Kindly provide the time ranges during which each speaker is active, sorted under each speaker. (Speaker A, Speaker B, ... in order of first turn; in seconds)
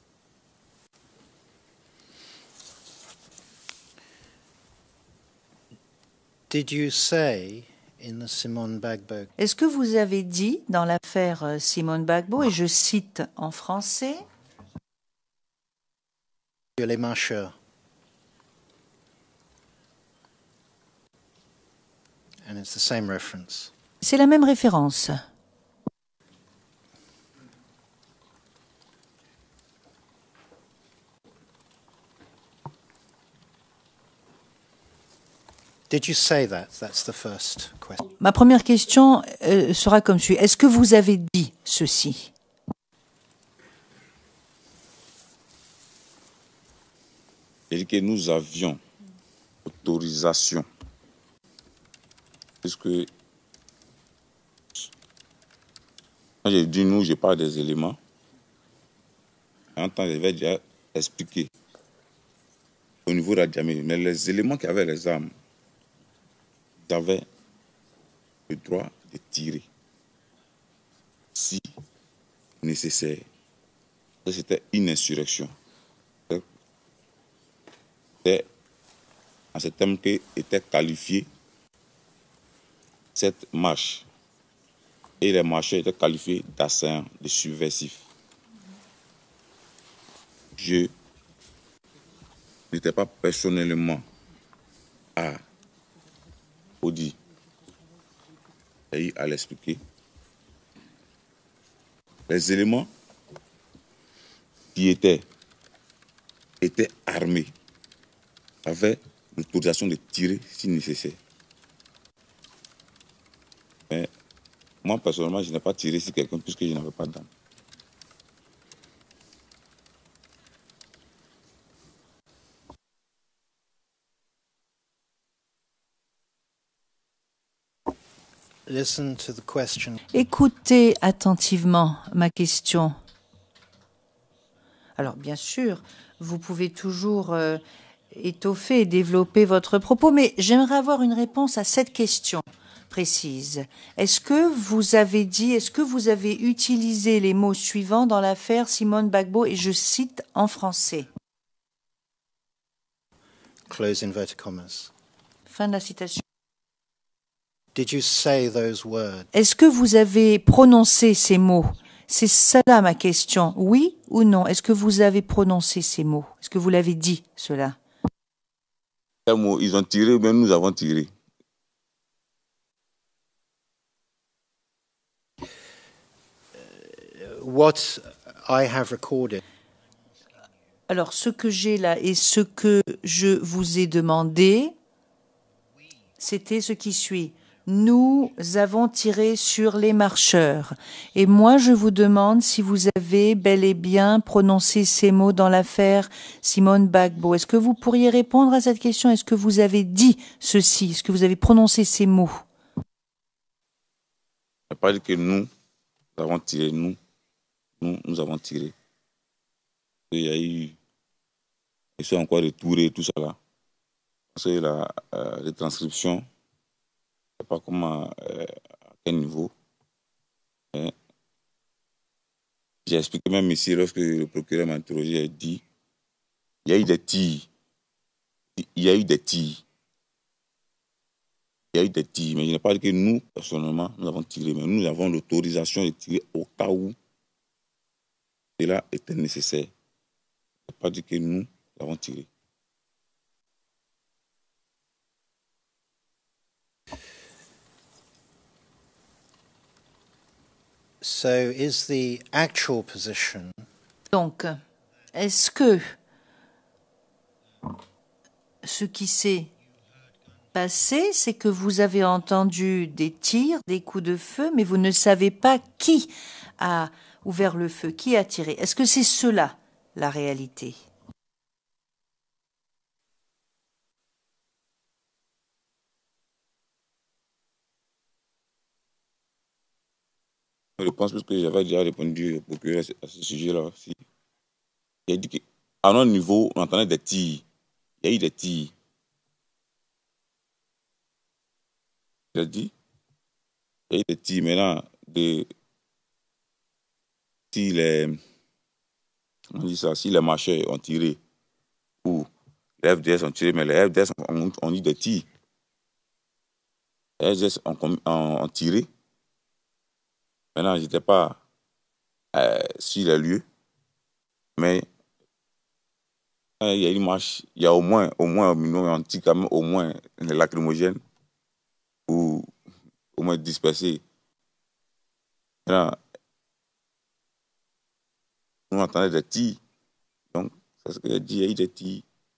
Speaker A: 6.5-9.3, 16.8-17.5, 22.4-23.7, 35.9-38.0, 128.7-130.0, 153.7-154.9, 157.7-159.3, 176.8-179.4, 251.0-253.6
Speaker B: 9.4-14.2, 24.0-25.2, 38.2-42.3, 130.1-132.9, 135.0-137.6, 138.1-151.1, 155.5-156.2, 159.3-167.8, 180.9-184.7, 186.2-202.4, 254.1-254.6, 255.1-255.9, 258.6-259.5, 260.5-270.8
Speaker C: 47.7-48.8, 49.6-50.7, 52.6-53.1, 56.4-58.0, 59.8-61.5, 63.0-65.3, 66.8-67.2, 68.5-69.7, 71.3-71.7, 72.6-73.2, 74.2-75.5, 79.5-81.3, 83.1-84.0, 85.2-88.0, 90.6-90.9, 92.7-94.0, 96.8-97.2, 98.9-99.8, 102.3-102.9, 104.7-105.2, 106.6-107.5, 108.6-111.2, 114.8-117.3, 169.2-171.1, 204.7-205.5, 206.2-207.0, 207.8-208.7, 210.1-210.8, 212.0-213.4, 214.3-216.2, 217.4-219.5, 222.8-225.6, 226.7-227.5, 228.6-229.6, 231.7-236.9, 238.6-239.7, 240.7-242.3, 280.8-284.0, 285.1-287.4, 288.0-288.7, 292.3-292.7, 293.9-295.5, 297.5-298.2, 299.5-301.2, 302.8-305.2, 307.2-308.9, 310.5-311.4, 312.3-313.4, 314.6-314.9, 316.6-321.0, 322.1-322.5, 323.1-324.0, 325.6-326.0, 328.7-329.6, 330.3-332.0